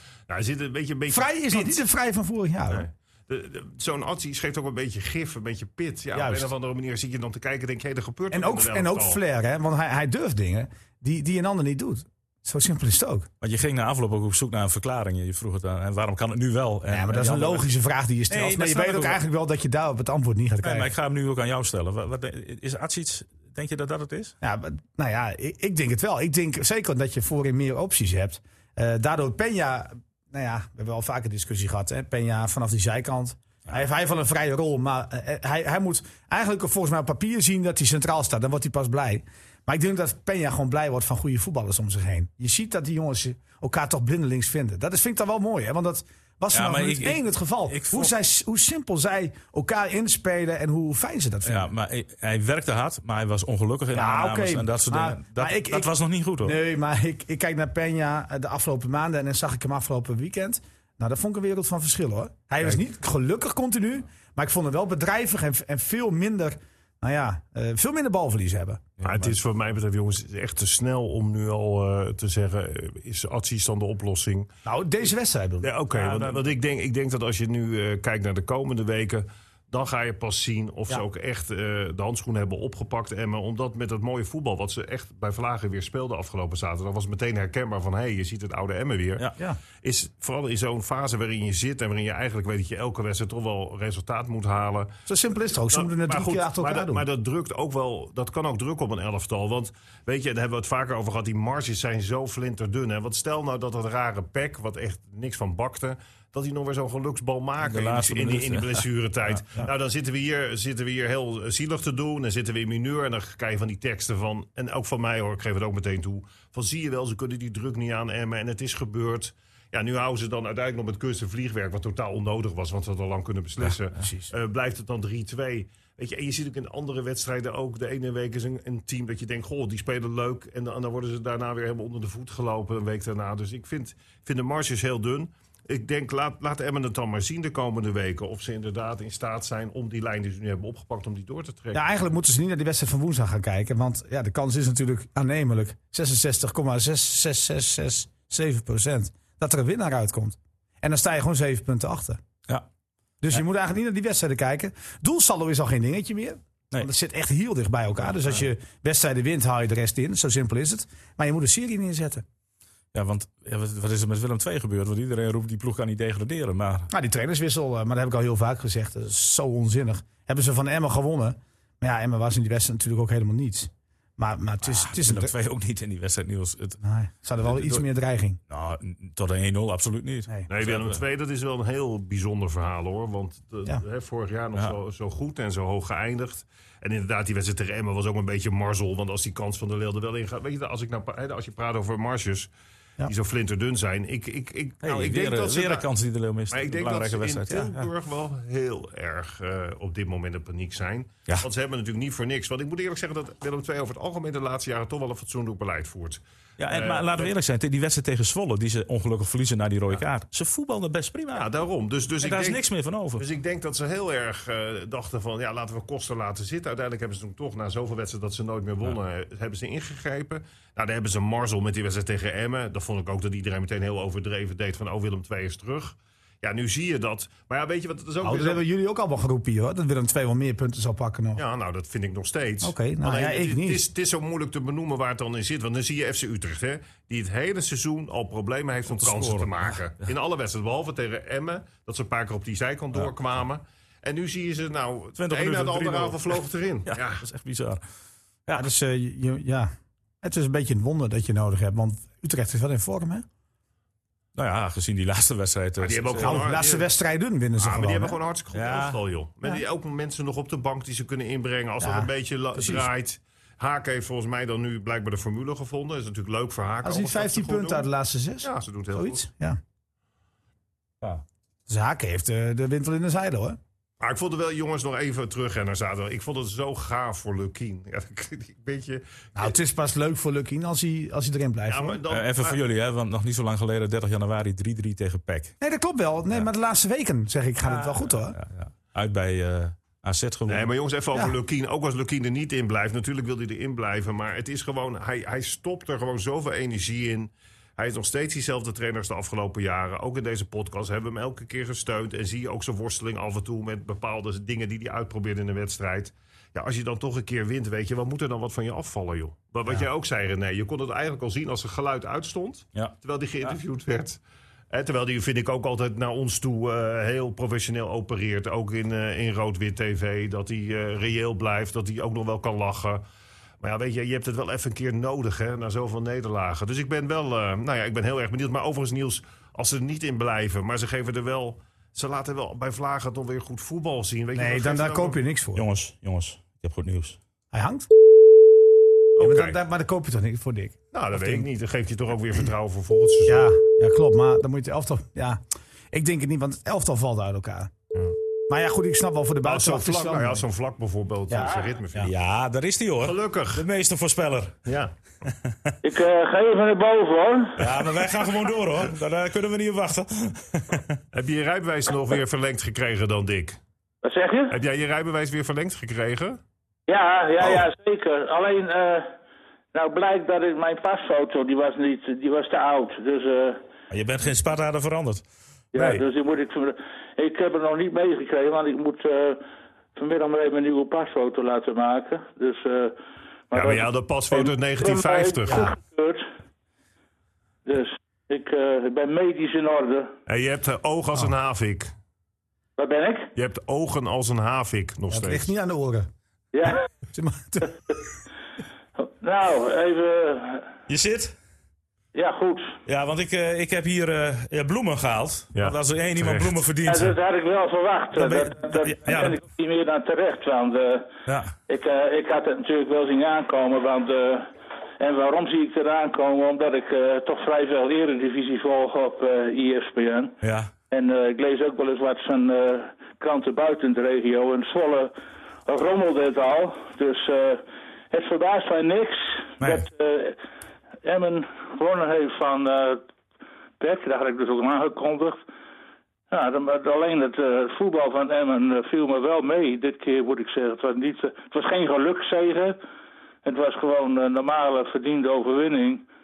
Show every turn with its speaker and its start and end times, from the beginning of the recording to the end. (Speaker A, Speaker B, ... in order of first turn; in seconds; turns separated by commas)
Speaker A: 0.3-1.8, Speaker B: 1.1-2.9, Speaker A: 2.7-9.2, Speaker B: 6.1-6.5, Speaker B: 8.3-13.3, Speaker C: 13.4-17.7, Speaker B: 16.9-20.9, Speaker C: 18.3-19.2, Speaker C: 20.6-24.3, Speaker B: 24.4-51.7, Speaker C: 46.5-48.1, Speaker C: 51.5-56.6, Speaker B: 53.9-55.9, Speaker B: 56.4-68.9, Speaker C: 69.0-69.3, Speaker A: 69.0-74.5, Speaker B: 74.7-75.7, Speaker A: 75.6-89.3, Speaker C: 76.0-76.4, Speaker A: 89.8-95.0, Speaker B: 95.1-97.0, Speaker A: 95.7-141.8, Speaker C: 107.6-108.9, Speaker B: 124.0-124.3, Speaker B: 141.7-152.2, Speaker B: 153.2-162.2, Speaker C: 162.9-166.9, Speaker B: 166.9-175.3, Speaker C: 174.6-176.8, Speaker B: 176.8-178.4, Speaker C: 177.5-177.8, Speaker C: 178.5-181.0, Speaker A: 180.5-192.5, Speaker A: 193.0-195.9, Speaker C: 194.8-197.9, Speaker A: 196.5-207.3, Speaker C: 206.6-211.5, Speaker A: 211.3-212.7, Speaker C: 212.2-213.2, Speaker A: 213.2-228.6, Speaker B: 228.2-231.4, Speaker A: 231.4-247.2, Speaker B: 232.6-233.9, Speaker C: 238.9-239.8, Speaker C: 245.2-247.8, Speaker B: 248.5-249.7, Speaker B: 250.2-253.3, Speaker C: 254.3-256.5, Speaker A: 255.8-256.9, Speaker B: 256.2-258.2, Speaker A: 257.6-267.9, Speaker C: 258.5-259.0, Speaker B: 261.8-262.9, Speaker B: 266.8-269.6, Speaker A: 268.4-269.3, Speaker B: 271.7-273.6, Speaker A: 274.0-279.4, Speaker B: 279.4-282.0, Speaker A: 281.7-282.6, Speaker C: 282.1-285.6, Speaker B: 285.6-288.4, Speaker C: 287.6-290.7, Speaker A: 290.5-314.2, Speaker C: 312.8-313.6, Speaker A: 314.7-323.0, Speaker A: 323.6-335.2, Speaker B: 334.4-335.6, Speaker C: 335.6-337.2, Speaker B: 337.5-337.9, Speaker A: 339.2-339.6, Speaker B: 339.2-341.5, Speaker A: 340.9-343.5, Speaker B: 343.3-345.4, Speaker B: 345.9-347.7, Speaker B: 348.5-350.4, Speaker A: 349.4-352.1, Speaker D: 351.4-351.7, Speaker C: 352.0-354.6, Speaker A: 353.0-353.6, Speaker A: 354.7-354.9, Speaker D: 355.8-357.6, Speaker C: 357.6-361.0, Speaker A: 361.1-363.6, Speaker D: 364.0-364.6, Speaker A: 364.5-366.4, Speaker D: 366.9-369.1, Speaker D: 369.7-373.6, Speaker C: 373.9-375.2, Speaker D: 375.7-379.4, Speaker B: 375.8-376.0, Speaker D: 379.9-383.0, Speaker D: 383.5-386.3, Speaker A: 383.5-385.7, Speaker D: 387.6-390.1, Speaker A: 390.3-391.9, Speaker D: 392.8-393.3, Speaker A: 393.4-395.5, Speaker B: 395.1-396.1, Speaker D: 396.5-396.9, Speaker B: 396.6-397.7, Speaker D: 399.1-400.7, Speaker C: 400.9-401.3, Speaker D: 402.1-402.8, Speaker C: 402.9-407.2, Speaker A: 405.6-406.6, Speaker D: 406.9-411.1, Speaker C: 408.1-409.4, Speaker C: 411.3-411.5, Speaker D: 411.7-420.4, Speaker C: 420.4-420.7, Speaker D: 420.9-425.1, Speaker D: 425.7-430.4, Speaker D: 431.0-433.0, Speaker D: 433.8-435.4, Speaker D: 436.3-442.8, Speaker D: 443.4-446.1